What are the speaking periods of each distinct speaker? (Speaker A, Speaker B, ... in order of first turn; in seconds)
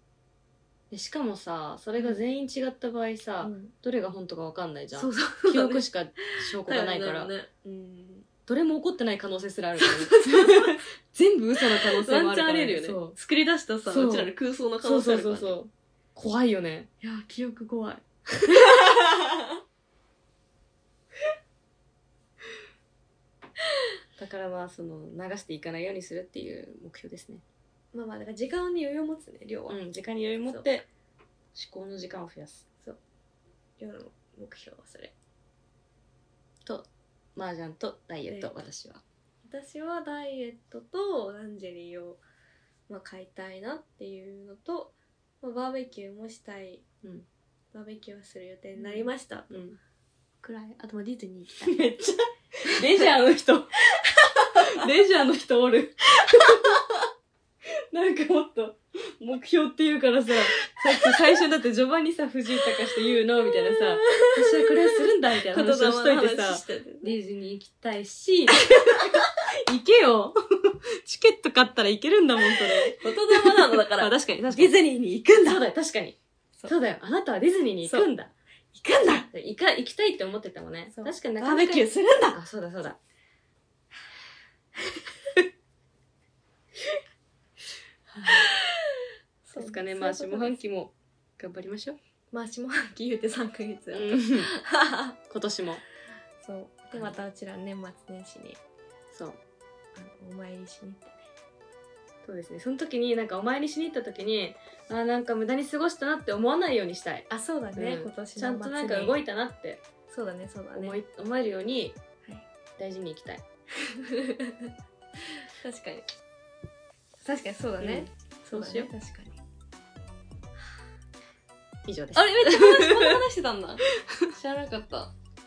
Speaker A: 0.9-7.3, 8.5-13.2, 13.8-16.9, 24.2-27.4, 29.7-30.9, 31.5-32.6, 36.6-39.0, 48.8-49.8, 51.6-53.7, 54.6-56.8, 57.9-74.8, 75.4-78.3, 79.3-83.0, 88.1-88.5, 89.6-92.0, 93.9-94.5, 95.3-95.8, 99.1-99.4, 102.2-109.8, 110.8-112.0, 112.8-113.4, 117.8-118.9, 121.9-123.2
Speaker B: 2.0-2.2, 3.4-3.7, 4.9-8.3, 9.8-10.8, 11.6-15.6, 17.0-19.5, 27.9-29.8, 30.5-30.7, 33.8-35.1, 38.3-38.6, 39.5-42.2, 42.9-46.8, 47.7-49.6, 50.4-51.8, 52.7-53.1, 56.2-56.8, 60.7-61.2, 63.4-67.2, 68.6-69.1, 72.7-75.6, 77.8-78.1, 78.7-79.3, 80.9-82.4, 88.3-88.8, 89.4-90.6, 92.3-95.2, 96.4-98.6, 100.0-101.2, 107.3-109.2, 110.1-111.0, 114.0-114.7, 115.5-116.1, 117.2-119.4, 122.1-125.1